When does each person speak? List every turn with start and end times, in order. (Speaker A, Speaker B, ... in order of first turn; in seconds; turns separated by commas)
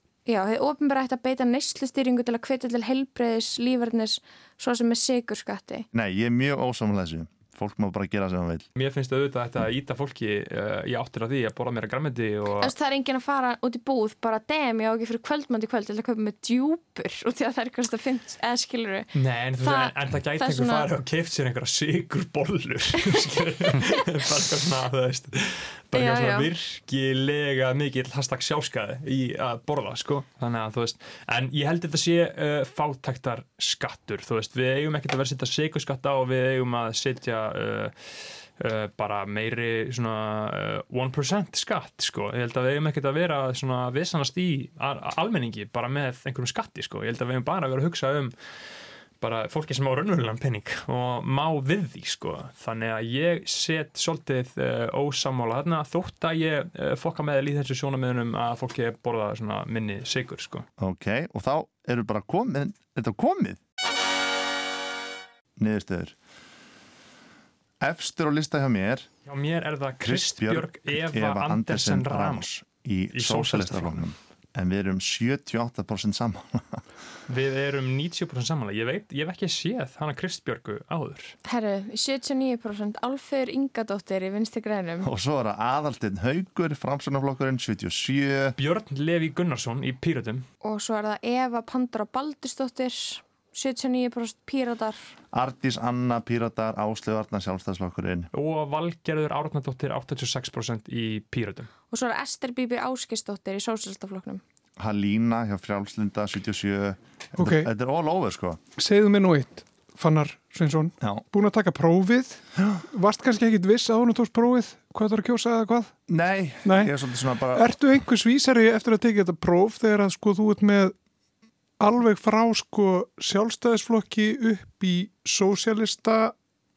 Speaker A: 0.3-5.8, Speaker B: 5.9-8.6, Speaker C: 8.8-12.7, Speaker A: 12.6-19.1, Speaker C: 19.1-48.5, Speaker A: 19.6-20.9, Speaker A: 25.9-26.5, Speaker C: 49.2-60.6, Speaker B: 60.8-63.6, Speaker B: 65.6-66.1, Speaker B: 67.8-69.1, Speaker C: 69.3-72.5, Speaker B: 70.0-76.8, Speaker C: 73.1-74.1, Speaker C: 77.3-81.3, Speaker A: 81.4-85.1, Speaker B: 85.0-88.6, Speaker C: 88.6-90.4, Speaker A: 90.6-95.0, Speaker B: 95.3-98.3, Speaker C: 98.3-101.7, Speaker A: 101.9-104.4, Speaker B: 104.8-108.6, Speaker D: 107.4-107.7, Speaker D: 108.8-115.9, Speaker B: 112.5-112.8, Speaker B: 116.1-117.7, Speaker D: 116.6-116.9, Speaker D: 117.5-120.9, Speaker D: 121.8-126.3